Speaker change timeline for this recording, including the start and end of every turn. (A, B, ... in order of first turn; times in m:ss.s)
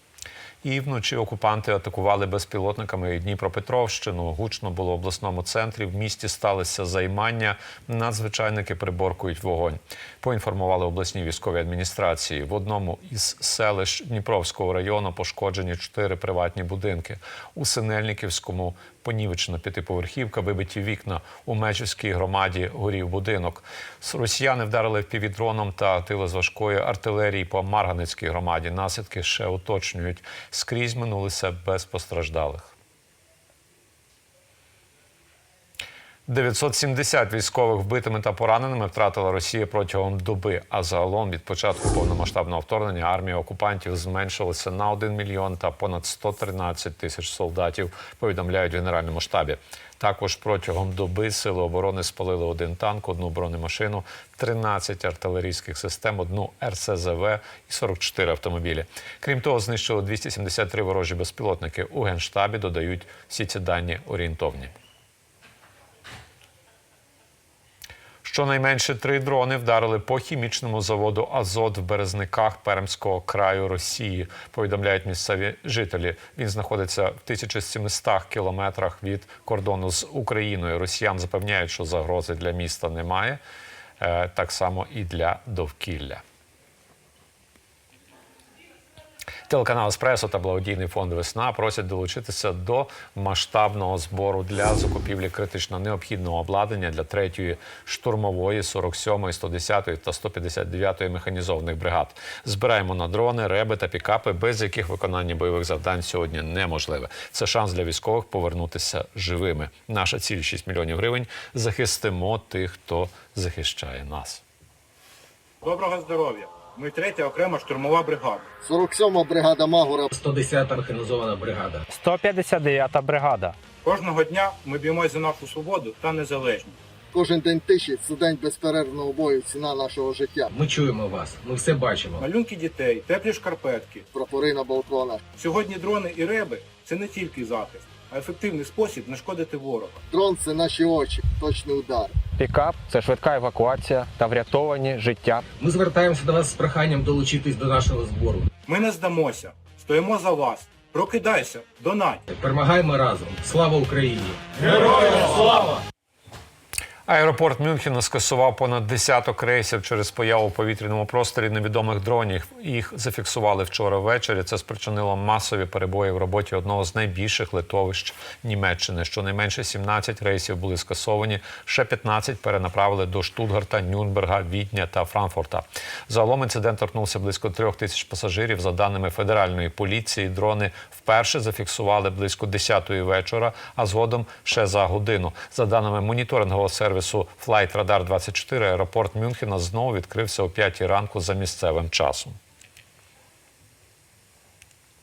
0:00.6-0:32.7 A
0:36.3-1:04.7 A
1:08.2-1:23.4 A
1:24.0-1:26.2 A
1:29.5-1:54.4 A
1:55.6-1:58.5 B
1:58.6-2:00.1 C
2:00.1-2:01.9 D
2:01.9-2:03.6 E
2:03.8-2:06.8 B
2:07.1-2:10.5 C
2:10.5-2:12.3 D
2:12.2-2:14.1 B
2:14.1-2:15.2 C
2:15.4-2:20.0 B
2:20.1-2:22.2 C
2:22.4-2:25.4 E
2:25.6-2:28.5 D
2:28.7-2:32.2 B
2:32.3-2:35.7 D
2:37.1-3:12.4 A